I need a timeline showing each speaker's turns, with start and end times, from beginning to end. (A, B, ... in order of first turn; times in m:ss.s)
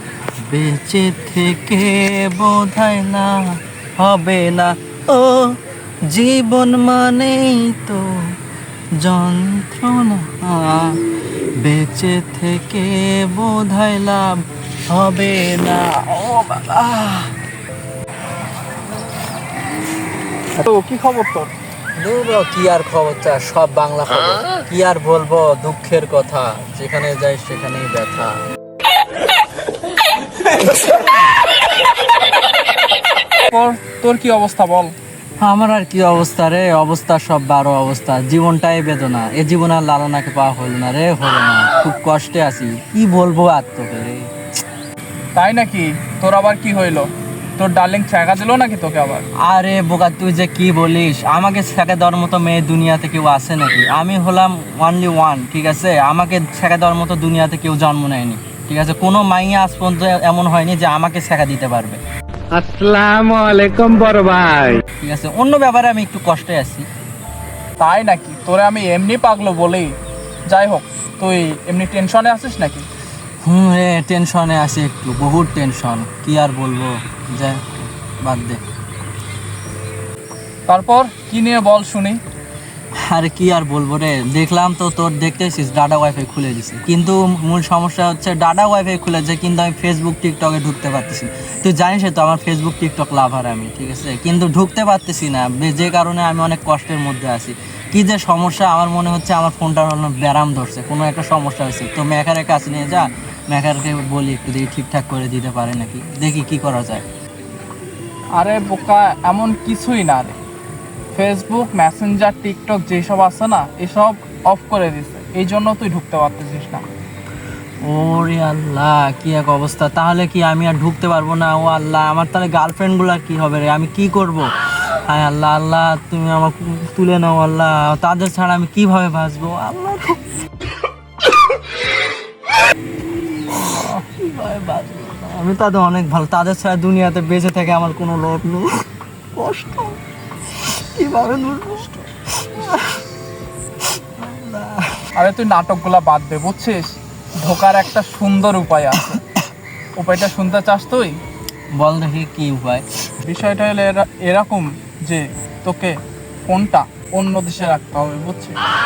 0:00.4-0:05.6 A
0:06.1-0:08.1 A
0:09.0-0:10.9 A
0:11.6-0:17.3 A
0:20.6-0:21.5 B
0:22.0-0:28.4 A
0:33.5-0:34.9 B
0:35.4-0:44.3 A
0:45.4-0:47.1 B
0:47.6-0:49.2 B
0:49.4-1:02.0 A
1:02.6-1:04.8 C
1:05.0-1:06.8 A
1:07.8-1:09.9 B
1:10.5-1:12.8 B
1:13.4-1:17.7 A
1:18.2-1:18.6 A
1:20.7-1:22.2 B
1:23.0-1:47.0 A
1:48.4-1:50.4 B
1:51.1-1:56.8 B
1:57.8-2:04.5 A
2:05.0-2:10.2 A
2:13.5-2:18.7 A
2:13.7-2:14.0 B
2:19.4-2:20.0 A
2:20.6-2:23.0 A
2:24.0-2:25.0 A
2:25.2-2:29.2 B
2:30.0-2:31.2 B
2:31.8-2:32.8 A
2:33.2-2:38.6 B